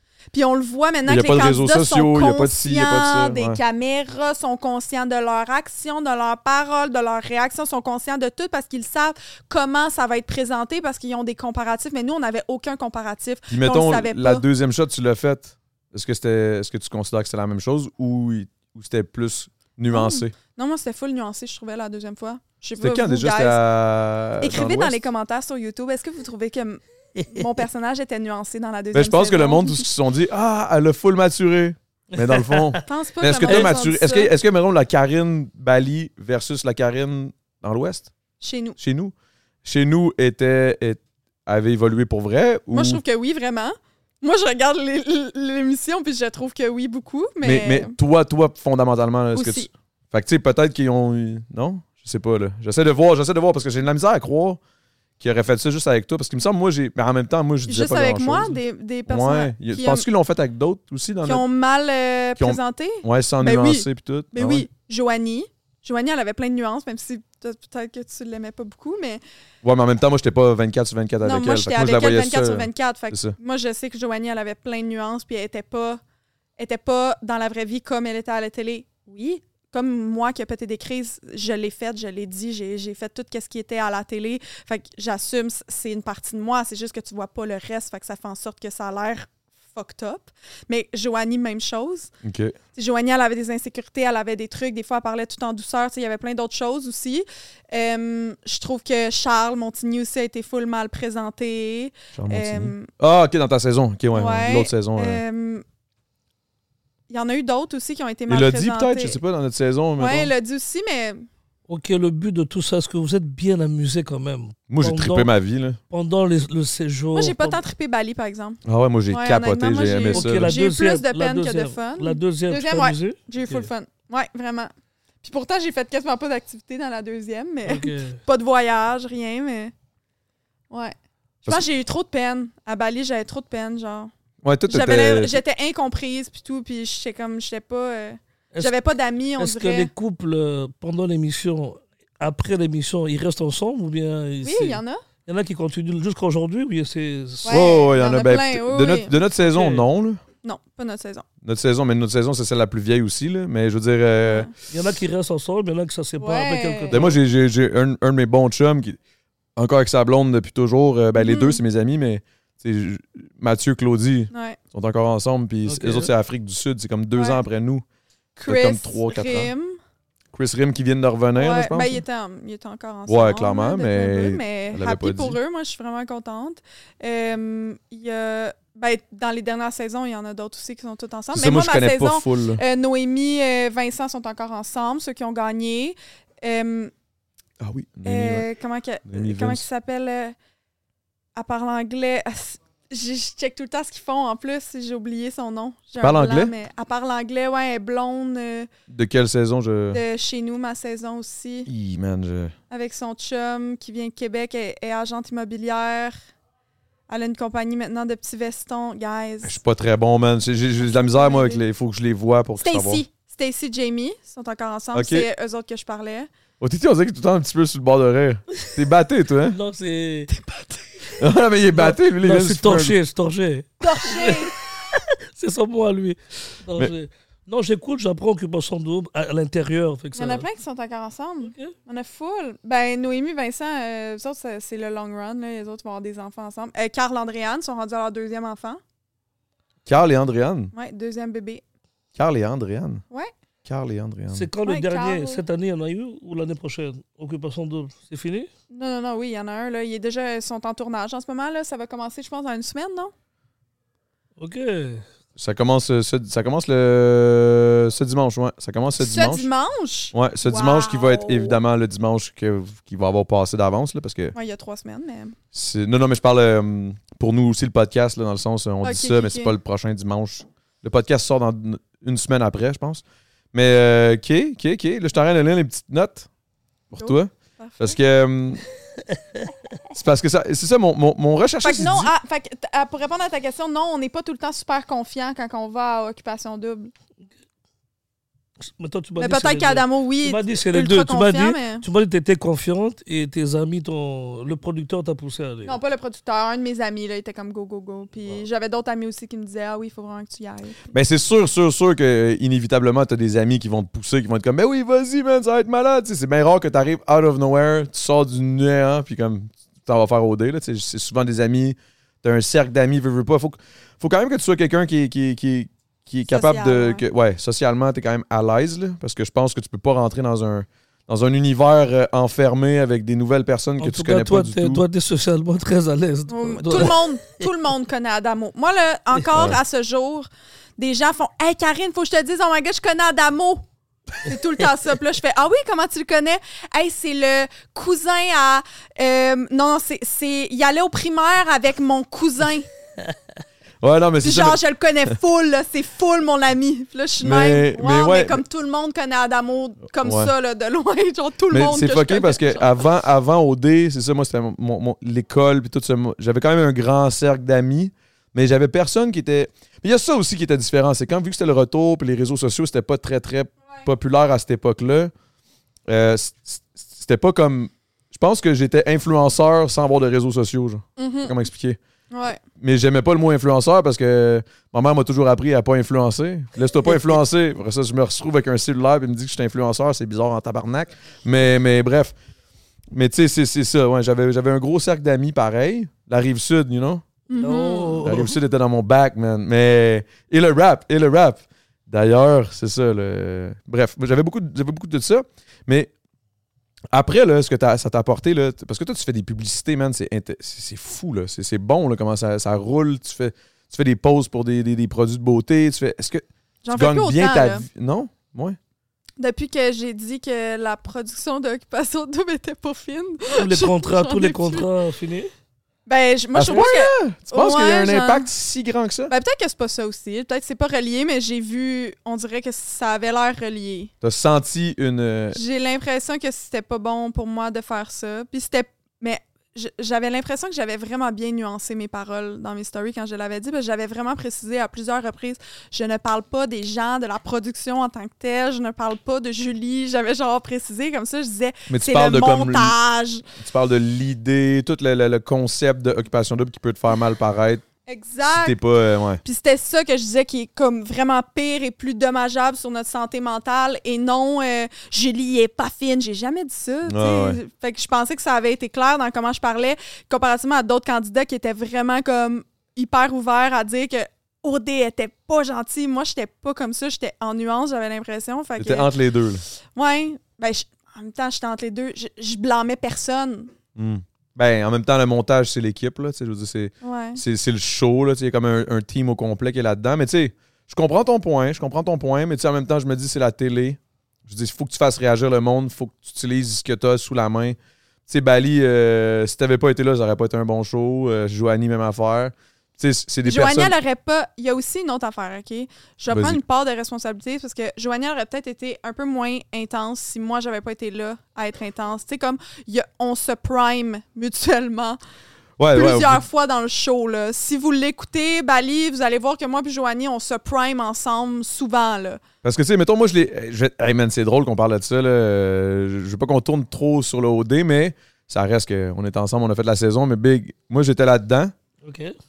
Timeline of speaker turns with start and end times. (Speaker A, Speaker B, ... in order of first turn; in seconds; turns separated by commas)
Speaker A: 0.3-14.4, Speaker B: 1.1-3.6, Speaker B: 13.5-20.3, Speaker A: 19.9-23.6, Speaker B: 22.8-25.0, Speaker A: 24.4-29.9, Speaker B: 28.9-38.1, Speaker C: 32.1-32.8, Speaker A: 32.8-34.3, Speaker A: 38.4-38.8, Speaker B: 38.8-39.1, Speaker B: 39.6-43.0, Speaker A: 42.7-47.9, Speaker B: 47.4-54.6, Speaker A: 49.3-49.7, Speaker B: 55.2-61.4, Speaker A: 57.7-60.0, Speaker A: 61.2-69.2, Speaker B: 62.4-64.7, Speaker B: 69.6-73.3, Speaker A: 71.2-76.0, Speaker A: 76.6-92.1, Speaker B: 92.2-92.5, Speaker A: 92.7-102.9, Speaker B: 102.1-105.2, Speaker A: 104.1-105.6, Speaker A: 107.1-109.2, Speaker B: 108.3-110.3, Speaker A: 110.0-111.2, Speaker C: 111.7-115.3, Speaker B: 114.7-115.8, Speaker C: 115.9-117.6, Speaker A: 117.1-118.6, Speaker B: 118.6-120.5, Speaker A: 119.1-124.7, Speaker C: 120.1-123.7, Speaker A: 125.2-129.7, Speaker C: 127.7-128.2, Speaker A: 130.7-134.1, Speaker B: 134.4-135.4, Speaker A: 134.7-139.9, Speaker C: 139.4-147.7, Speaker A: 144.4-145.0, Speaker A: 147.4-149.1, Speaker B: 147.5-150.2, Speaker C: 149.4-149.9, Speaker A: 150.4-151.2, Speaker B: 151.4-154.5, Speaker A: 154.2-154.5, Speaker C: 154.7-157.2, Speaker A: 156.2-157.0, Speaker B: 156.9-159.0, Speaker B: 159.6-167.8, Speaker A: 161.2-161.6, Speaker A: 164.3-164.6, Speaker C: 165.7-166.1, Speaker A: 167.2-167.4, Speaker A: 168.3-169.8, Speaker B: 168.5-169.5, Speaker B: 170.3-172.0, Speaker A: 171.3-186.9, Speaker B: 173.1-175.4, Speaker B: 181.3-182.6, Speaker B: 187.6-188.4, Speaker A: 188.0-190.3, Speaker B: 189.1-189.6, Speaker A: 191.3-198.7, Speaker B: 196.0-196.5, Speaker B: 198.9-200.0, Speaker A: 199.9-201.7, Speaker B: 201.7-202.5, Speaker A: 202.7-206.2, Speaker A: 207.1-209.6, Speaker B: 209.4-213.0, Speaker A: 210.8-211.6, Speaker A: 212.6-216.3, Speaker B: 214.9-215.3, Speaker B: 216.6-219.6, Speaker C: 219.5-220.3, Speaker A: 220.3-221.1, Speaker B: 221.2-222.9, Speaker C: 221.7-230.4, Speaker A: 223.8-224.5, Speaker A: 230.2-238.8, Speaker C: 231.4-231.7, Speaker B: 239.8-240.7, Speaker A: 240.7-241.6, Speaker B: 242.1-243.0, Speaker B: 243.6-244.5, Speaker C: 244.3-248.5, Speaker A: 244.6-245.4, Speaker A: 248.7-253.1, Speaker C: 254.4-255.0, Speaker B: 255.4-259.5, Speaker A: 259.0-261.6, Speaker B: 260.1-264.3, Speaker A: 264.3-265.4, Speaker B: 265.5-276.3, Speaker A: 268.8-269.5, Speaker B: 276.9-278.6, Speaker A: 277.0-278.0, Speaker B: 279.9-282.1, Speaker A: 281.6-286.9, Speaker C: 288.6-295.8, Speaker A: 289.2-291.8, Speaker A: 295.6-300.9, Speaker B: 300.9-324.8, Speaker A: 316.3-317.0, Speaker C: 323.8-327.0, Speaker A: 326.3-333.6, Speaker B: 329.3-329.6, Speaker A: 334.2-342.7, Speaker B: 343.8-344.6, Speaker A: 344.2-352.7, Speaker B: 347.2-348.4, Speaker B: 350.0-350.3, Speaker B: 351.5-365.1, Speaker B: 365.9-371.8, Speaker A: 371.0-371.4, Speaker A: 372.1-372.4, Speaker B: 372.6-382.1, Speaker A: 376.8-377.1, Speaker B: 382.9-387.0, Speaker A: 387.3-388.1, Speaker C: 387.4-388.3, Speaker B: 388.0-395.9, Speaker B: 396.9-408.6, Speaker A: 406.6-407.6, Speaker A: 409.2-414.6, Speaker C: 413.4-415.3, Speaker A: 415.9-418.3, Speaker B: 416.3-419.1, Speaker A: 419.1-423.9, Speaker B: 424.0-425.4, Speaker A: 425.3-443.2, Speaker B: 441.7-442.7, Speaker B: 443.4-447.6, Speaker A: 447.9-448.6, Speaker B: 448.4-449.2, Speaker A: 449.2-468.9, Speaker B: 456.9-457.4, Speaker B: 468.6-469.4, Speaker A: 469.7-473.5, Speaker B: 473.8-493.7, Speaker A: 476.8-477.2, Speaker A: 493.2-505.0, Speaker B: 496.1-496.4, Speaker B: 505.6-506.2, Speaker A: 505.7-512.2, Speaker B: 512.4-521.5, Speaker C: 521.8-522.1